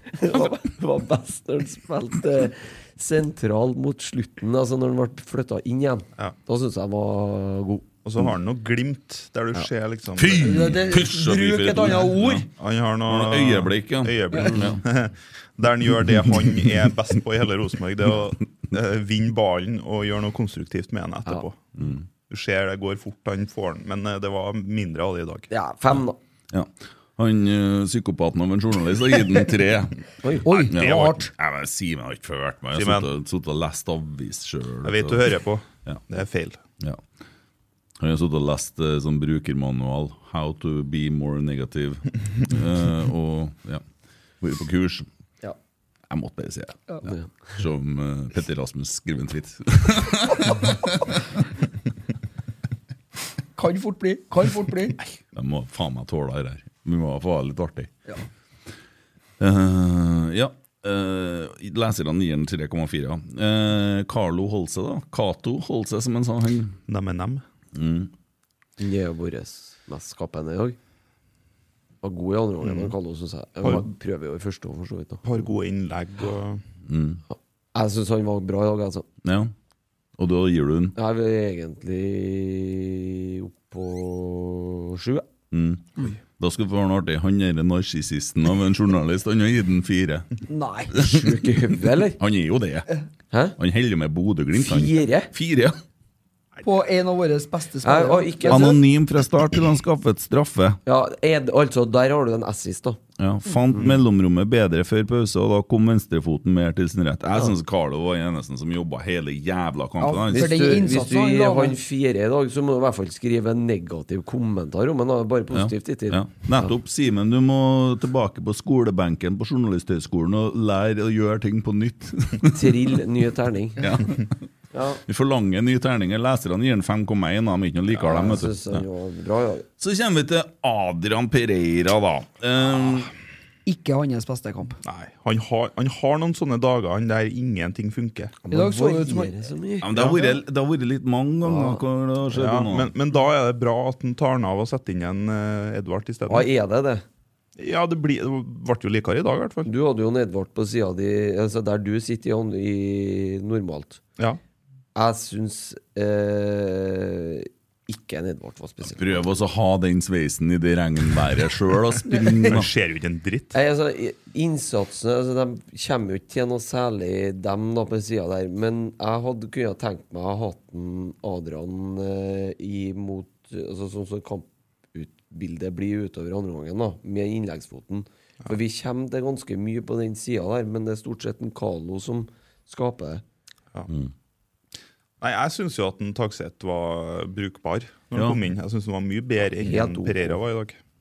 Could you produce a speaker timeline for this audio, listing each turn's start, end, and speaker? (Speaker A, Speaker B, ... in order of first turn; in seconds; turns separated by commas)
Speaker A: 0.1-7.9, Speaker B: 8.0-10.8, Speaker C: 10.2-12.5, Speaker D: 10.4-12.5, Speaker B: 12.6-21.7, Speaker C: 13.1-14.8, Speaker A: 14.4-14.8, Speaker C: 21.8-22.0, Speaker B: 22.3-25.5, Speaker A: 25.5-26.2, Speaker C: 26.5-30.0, Speaker A: 30.2-30.5, Speaker D: 30.4-31.3, Speaker C: 30.7-36.0, Speaker B: 30.7-31.2, Speaker B: 32.7-33.1, Speaker B: 34.8-36.6, Speaker C: 38.0-43.8, Speaker C: 44.4-45.1, Speaker C: 46.1-51.0, Speaker D: 53.5-55.0, Speaker C: 55.3-57.9, Speaker C: 59.4-66.8, Speaker B: 66.9-67.4, Speaker C: 67.7-68.1, Speaker A: 68.8-70.8, Speaker A: 72.0-75.2, Speaker B: 72.6-72.9, Speaker B: 73.6-73.9, Speaker B: 75.2-76.6, Speaker C: 76.9-77.2, Speaker A: 77.7-79.1, Speaker C: 79.2-79.5, Speaker C: 80.2-81.0, Speaker A: 80.9-85.3, Speaker C: 85.5-90.3, Speaker D: 90.5-90.9, Speaker C: 90.9-92.9, Speaker A: 90.9-92.2, Speaker A: 93.3-93.6, Speaker C: 93.6-95.8, Speaker A: 94.5-95.3, Speaker D: 96.6-98.8, Speaker A: 97.8-98.8, Speaker C: 98.5-100.8, Speaker A: 100.8-103.0, Speaker C: 103.2-110.7, Speaker D: 110.0-111.8, Speaker A: 110.3-116.7, Speaker C: 115.5-122.8, Speaker A: 122.5-124.0, Speaker C: 123.8-124.3, Speaker A: 124.7-125.0, Speaker C: 125.1-128.8, Speaker A: 127.9-129.7, Speaker C: 129.8-133.1, Speaker D: 133.7-134.8, Speaker B: 134.8-138.4, Speaker A: 138.4-140.2, Speaker D: 138.5-139.3, Speaker C: 139.8-142.9, Speaker A: 141.4-141.8, Speaker B: 142.3-146.5, Speaker A: 146.3-147.0, Speaker B: 147.6-149.7, Speaker A: 149.7-154.0, Speaker A: 154.9-159.3, Speaker C: 158.9-162.7, Speaker B: 162.4-163.5, Speaker A: 163.5-183.2, Speaker B: 185.2-190.8, Speaker C: 188.1-188.4, Speaker A: 189.6-190.4